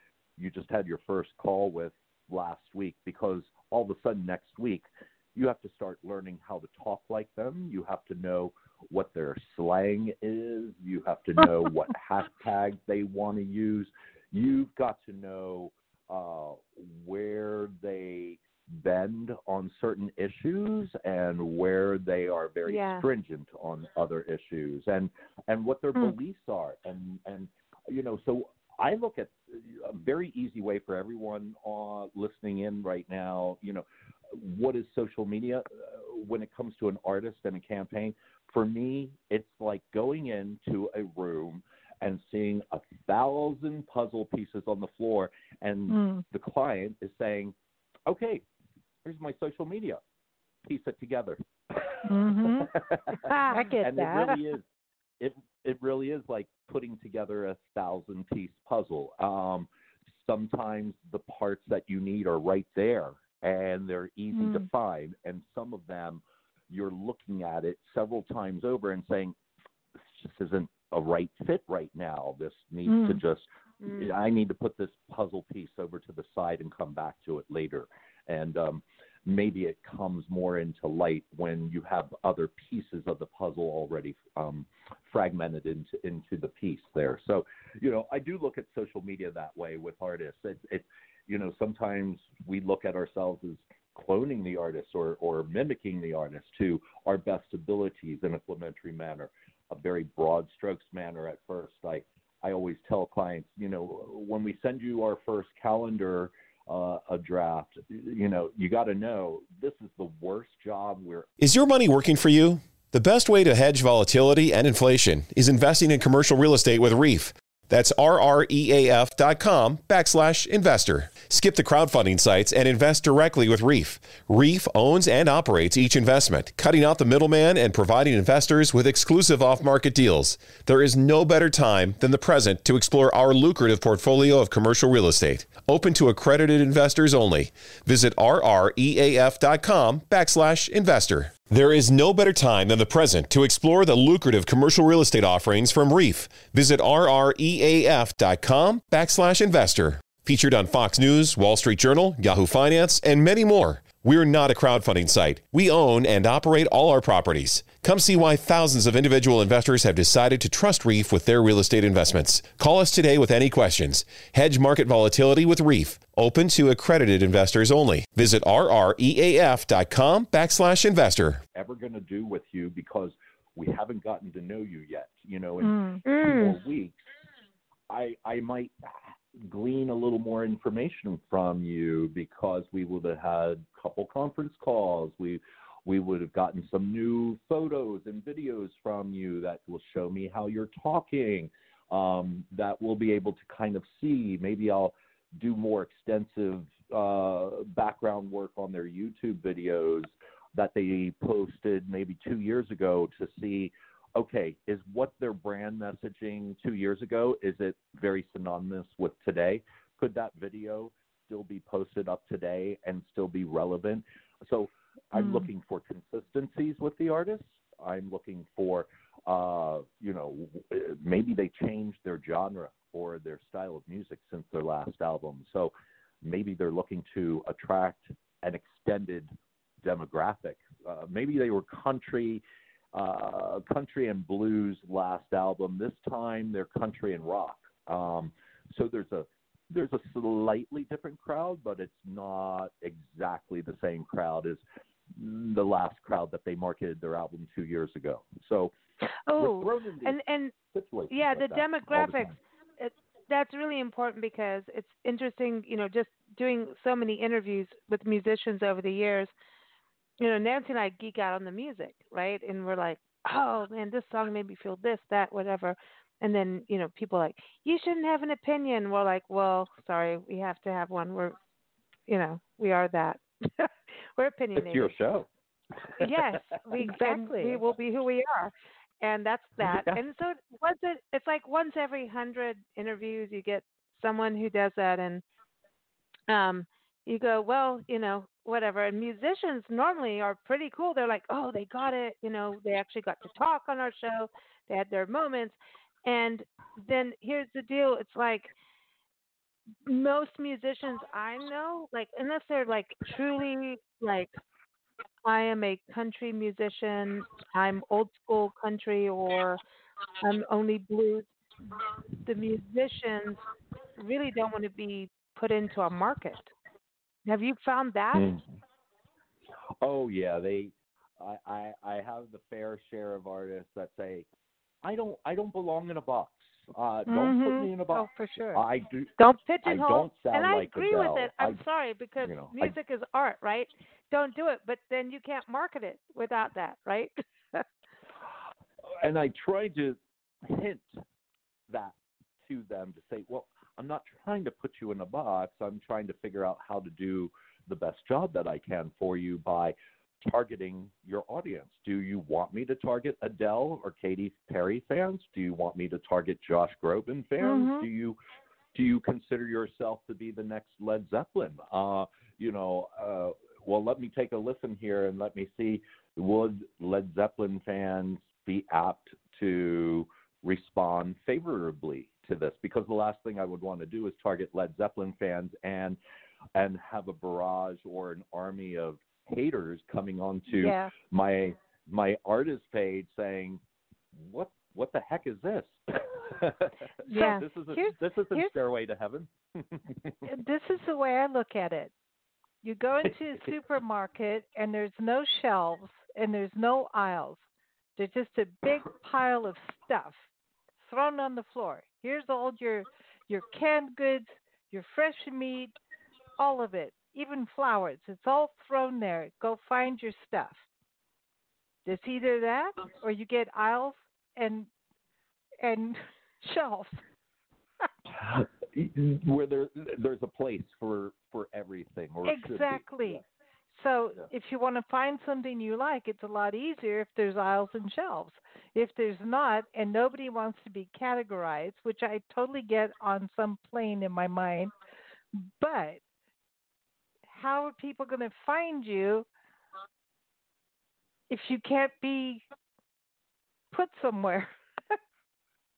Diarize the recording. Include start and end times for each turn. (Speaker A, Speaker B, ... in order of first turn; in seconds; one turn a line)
Speaker A: 0.4-47.5
Speaker B: 22.7-23.1
Speaker C: 45.9-46.2
Speaker A: 48.1-48.4
Speaker A: 49.0-50.0
Speaker A: 50.7-54.6
Speaker C: 52.0-52.8
Speaker C: 53.5-54.4
Speaker A: 55.2-69.4
Speaker C: 64.3-64.6
Speaker A: 70.0-111.3
Speaker C: 72.9-73.2
Speaker D: 111.4-171.4
Speaker A: 171.6-177.0
Speaker C: 175.6-176.0
Speaker B: 176.1-176.6
Speaker A: 177.9-229.3
Speaker C: 215.2-215.5
Speaker A: 229.8-244.6
Speaker A: 245.1-248.7
Speaker B: 249.3-250.6
Speaker A: 249.4-250.2
Speaker A: 250.7-252.3
Speaker B: 251.1-259.3
Speaker B: 260.2-271.4
Speaker B: 272.1-274.9
Speaker A: 274.6-275.3
Speaker A: 275.8-276.1
Speaker B: 276.0-285.2
Speaker C: 276.8-277.6
Speaker A: 279.6-280.0
Speaker B: 286.3-298.5
Speaker B: 299.8-304.3
Speaker B: 305.2-309.6
Speaker B: 310.2-311.3
Speaker B: 312.2-313.4
Speaker B: 314.0-316.5
Speaker B: 317.3-318.3
Speaker A: 318.1-318.4
Speaker A: 319.8-324.3
Speaker A: 324.8-329.1
Speaker C: 327.1-328.6
Speaker B: 329.2-337.6
Speaker A: 329.6-331.6
Speaker A: 332.2-332.8
Speaker A: 338.8-341.0
Speaker A: 341.7-358.2
Speaker C: 357.4-357.9
Speaker A: 358.7-376.0
Speaker A: 376.6-383.6
Speaker C: 380.5-380.9
Speaker A: 384.1-390.2
Speaker B: 387.1-387.4
Speaker C: 387.1-388.5
Speaker C: 390.2-391.9
Speaker C: 392.6-397.4
Speaker C: 398.0-400.2
Speaker C: 400.8-405.8
Speaker C: 406.4-410.6
Speaker C: 411.9-414.7
Speaker C: 415.6-417.0
Speaker A: 418.1-423.2
Speaker C: 422.2-434.7
Speaker C: 435.3-436.0
Speaker C: 437.3-439.3
Speaker C: 441.3-442.4
Speaker C: 443.7-445.0